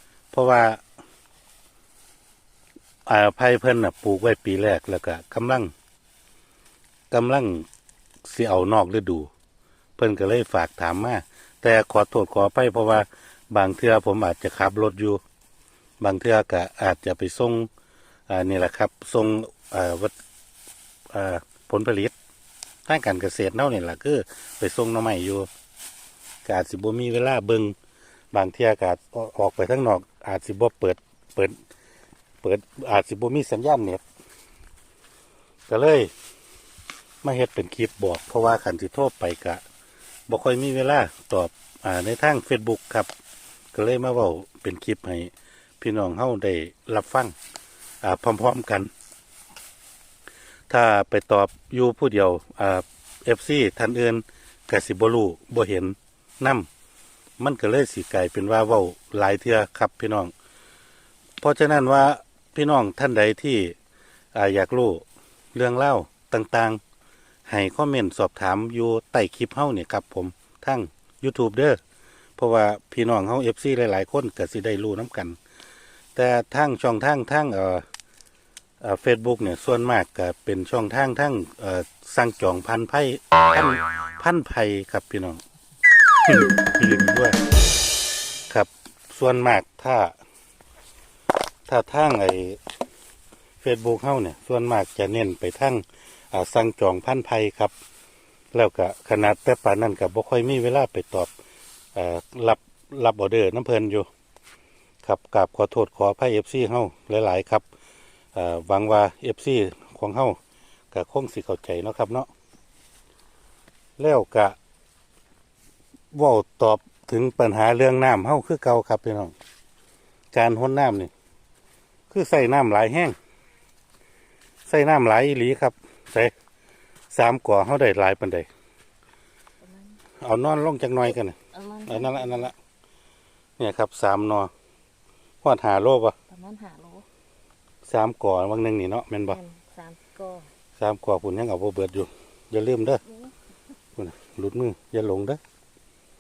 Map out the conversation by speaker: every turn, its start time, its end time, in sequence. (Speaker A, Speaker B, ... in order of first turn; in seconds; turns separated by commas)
Speaker A: 0.3-0.8, Speaker A: 3.1-5.7, Speaker A: 7.1-7.7, Speaker A: 8.2-9.3, Speaker A: 10.0-15.2, Speaker A: 16.0-17.7, Speaker A: 18.3-20.1, Speaker A: 21.1-22.1, Speaker A: 22.9-25.5, Speaker A: 26.5-27.8, Speaker A: 28.3-31.6, Speaker A: 32.4-34.0, Speaker A: 35.7-36.1, Speaker A: 37.2-39.6, Speaker A: 40.3-43.1, Speaker A: 43.7-47.3, Speaker A: 48.0-48.9, Speaker A: 50.7-56.7, Speaker A: 57.4-60.3, Speaker A: 61.4-63.8, Speaker A: 64.3-66.8, Speaker A: 67.5-71.8, Speaker A: 72.4-75.4, Speaker A: 76.2-77.8, Speaker A: 78.8-85.4, Speaker A: 86.2-87.4, Speaker A: 88.5-90.2, Speaker A: 91.7-92.6, Speaker A: 93.6-97.7, Speaker A: 98.5-101.3, Speaker A: 102.0-104.1, Speaker A: 105.0-107.7, Speaker A: 108.3-110.4, Speaker A: 110.9-112.3, Speaker A: 114.0-114.6, Speaker A: 116.1-119.3, Speaker A: 120.3-121.1, Speaker A: 122.1-123.2, Speaker A: 124.7-126.3, Speaker A: 127.1-128.5, Speaker B: 129.6-130.0, Speaker A: 130.2-132.5, Speaker B: 131.5-132.5, Speaker A: 133.6-134.5, Speaker A: 135.4-136.2, Speaker B: 136.3-137.1, Speaker A: 137.9-139.4, Speaker B: 139.3-140.5, Speaker A: 140.8-143.0, Speaker A: 144.0-145.4